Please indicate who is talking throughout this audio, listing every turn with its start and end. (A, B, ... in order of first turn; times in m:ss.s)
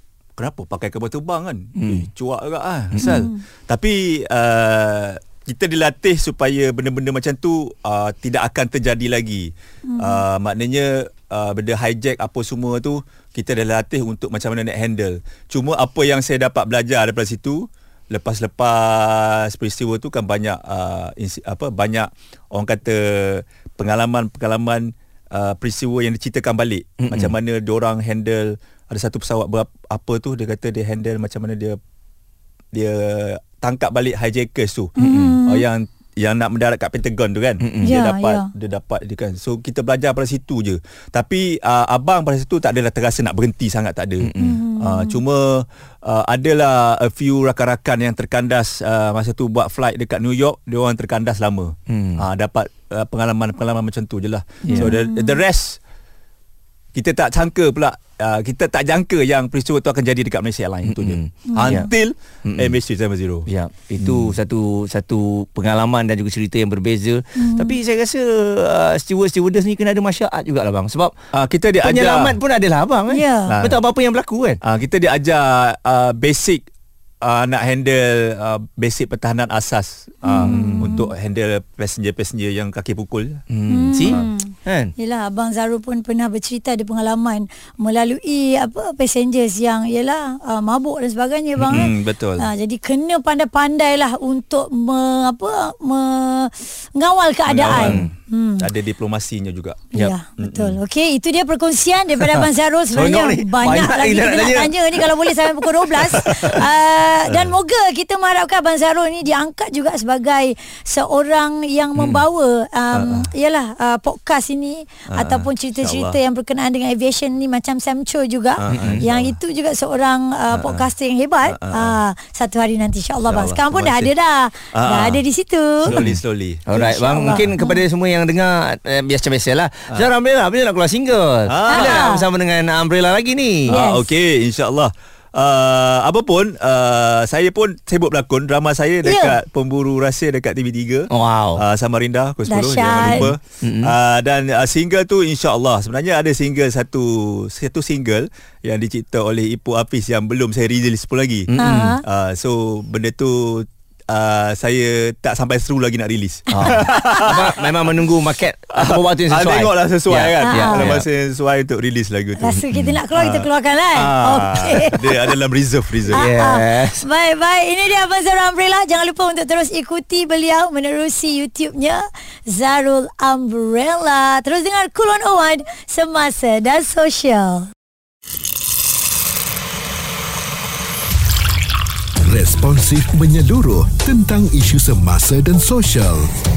0:00.4-0:31.8 A
0:01.8-0:02.0 B
0:02.9-0:03.2 B
0:03.0-0:03.4 C
0:09.8-0:10.2 C
0:27.0-0:27.3 B
0:32.7-0:55.8 A
0:35.0-0:35.6 C
0:35.0-0:35.4 B
0:37.6-0:37.9 B
0:37.8-0:38.5 C
0:44.2-0:44.6 B
0:44.4-0:45.2 C
0:51.9-0:52.2 B
0:54.7-0:54.9 B
0:54.7-0:55.4 C
0:56.9-1:03.5 A
1:00.8-1:01.9 B
1:01.5-1:01.9 C
1:02.4-1:02.7 B
1:03.5-1:11.1 B
1:04.0-1:04.3 A
1:07.4-1:07.8 C
1:11.3-1:12.4 A
1:11.8-1:14.6 B
1:13.1-1:13.5 C
1:13.5-1:13.8 A
1:14.6-1:16.6 A
1:17.2-1:23.4 A
1:20.2-1:21.1 C
1:20.4-1:21.0 B
1:23.5-1:24.9 B
1:23.7-1:38.7 C
1:31.6-1:31.9 B
1:31.7-1:32.5 A
1:37.5-1:39.9 A
1:37.8-1:38.1 B
1:39.9-2:06.0 C
1:40.4-1:40.8 A
1:42.9-1:46.6 B
1:46.2-1:46.6 A
1:52.0-1:52.2 B
1:52.9-1:53.3 A
1:55.1-1:56.2 A
1:58.6-1:59.3 A
1:58.7-1:59.1 B
2:00.5-2:00.9 A
2:01.5-2:02.0 A
2:03.2-2:04.1 A
2:04.7-2:05.2 A
2:05.8-2:06.6 A
2:05.9-2:13.7 B
2:06.7-2:07.8 C
2:11.5-2:12.0 A
2:11.7-2:12.2 C
2:13.7-2:14.1 C
2:13.7-2:37.7 A
2:19.0-2:19.4 C
2:21.1-2:21.6 B
2:22.5-2:23.3 C
2:23.0-2:23.9 B
2:31.5-2:32.0 B
2:31.6-2:32.0 C
2:36.5-2:41.0 B
2:36.6-2:37.4 C
2:38.8-2:42.6 A
2:40.4-2:41.0 C
2:42.4-2:45.2 C
2:42.6-2:42.9 B
2:43.1-2:46.2 A
2:46.1-2:47.0 B
2:46.1-2:57.7 C
3:02.2-3:06.3 D